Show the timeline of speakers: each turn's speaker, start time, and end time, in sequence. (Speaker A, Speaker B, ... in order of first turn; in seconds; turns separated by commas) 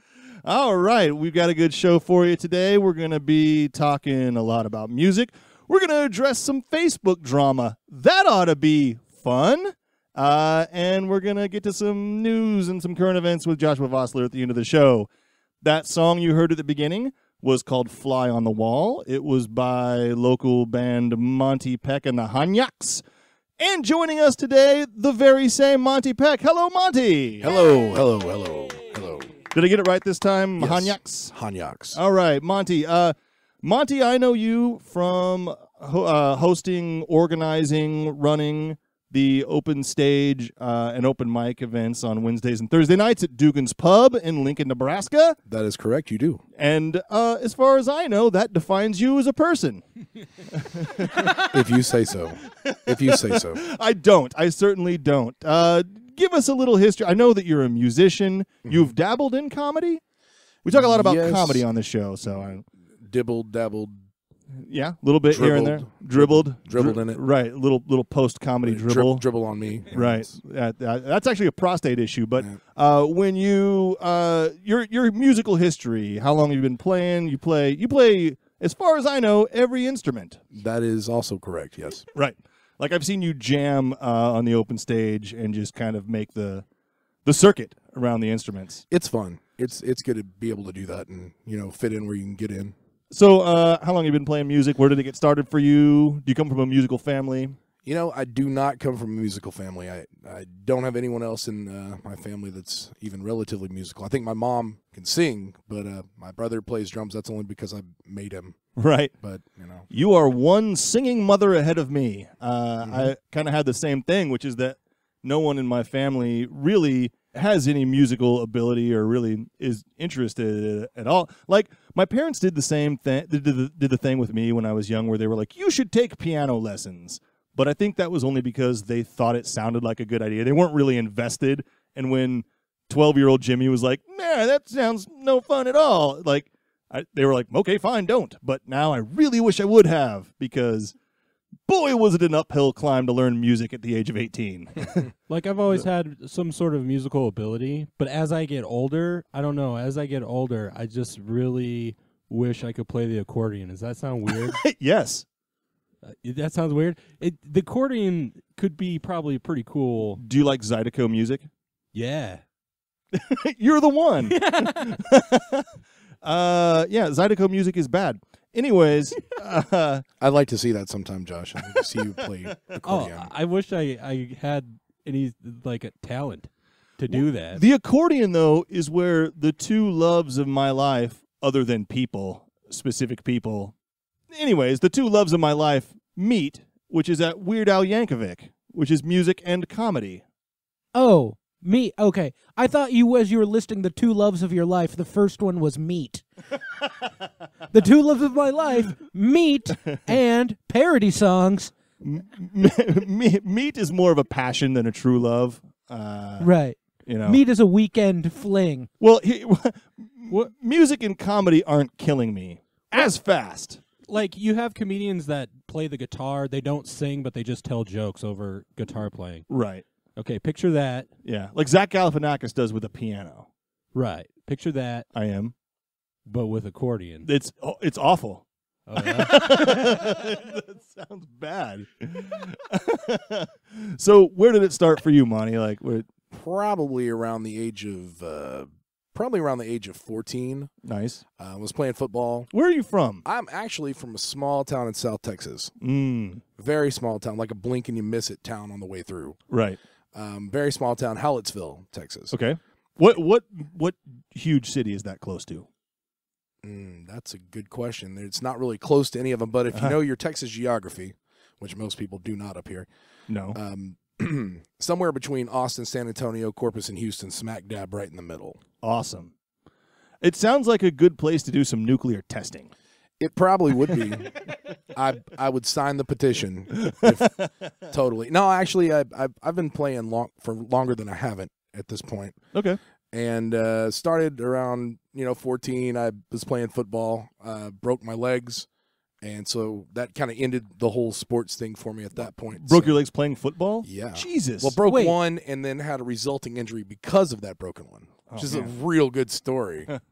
Speaker A: 0.4-15.1, Speaker A: 15.6-23.0, Speaker A: 23.6-27.5, Speaker B: 27.4-29.4, Speaker A: 29.5-31.3, Speaker B: 30.6-32.0, Speaker A: 31.9-45.4, Speaker B: 45.5-46.4, Speaker A: 46.5-49.8, Speaker A: 50.5-51.4, Speaker B: 51.3-53.6, Speaker A: 52.5-60.0, Speaker A: 60.6-62.6, Speaker B: 60.7-61.6, Speaker B: 63.0-64.0, Speaker A: 64.5-69.2, Speaker B: 65.3-67.2, Speaker B: 68.6-70.3, Speaker A: 69.8-80.4, Speaker B: 80.5-82.0, Speaker A: 82.1-86.6, Speaker A: 87.2-88.8, Speaker B: 88.9-92.7, Speaker A: 93.1-97.6, Speaker B: 97.8-108.6, Speaker A: 108.8-109.1, Speaker B: 109.2-109.9, Speaker A: 109.9-140.9, Speaker B: 112.8-113.1, Speaker A: 141.7-145.1, Speaker C: 145.3-154.6, Speaker A: 154.3-155.2, Speaker C: 156.0-160.2, Speaker A: 160.2-161.5, Speaker C: 161.9-162.4, Speaker A: 163.1-165.7, Speaker C: 164.3-165.0, Speaker A: 166.2-170.0, Speaker B: 170.2-173.3, Speaker C: 172.8-177.6, Speaker A: 177.1-183.7, Speaker A: 184.3-190.2, Speaker D: 190.9-196.2, Speaker D: 197.7-201.7, Speaker A: 202.0-206.5, Speaker D: 206.4-208.9, Speaker A: 207.0-207.4, Speaker A: 209.0-213.8, Speaker C: 214.1-219.5, Speaker A: 219.5-219.8, Speaker C: 220.2-221.1, Speaker A: 221.2-223.5, Speaker C: 223.9-225.1, Speaker A: 225.1-225.5, Speaker C: 226.2-227.3, Speaker A: 227.2-228.4, Speaker C: 228.9-230.1, Speaker A: 229.0-236.1, Speaker B: 236.3-240.7, Speaker A: 240.8-241.2, Speaker B: 241.4-242.5, Speaker A: 242.5-243.2, Speaker B: 243.2-245.7, Speaker A: 245.8-246.4, Speaker B: 246.6-249.4, Speaker A: 249.5-249.8, Speaker B: 250.1-252.3, Speaker A: 252.3-255.7, Speaker B: 256.6-262.9, Speaker A: 259.7-260.0, Speaker A: 263.3-263.6, Speaker B: 263.5-268.6, Speaker A: 268.8-269.3, Speaker A: 270.2-272.7, Speaker B: 273.2-274.4, Speaker B: 274.9-282.4, Speaker A: 276.8-277.4, Speaker A: 282.5-282.8, Speaker B: 283.1-288.7, Speaker B: 289.2-293.0, Speaker A: 292.5-294.8, Speaker B: 293.8-299.9, Speaker D: 294.9-295.2, Speaker A: 298.3-298.8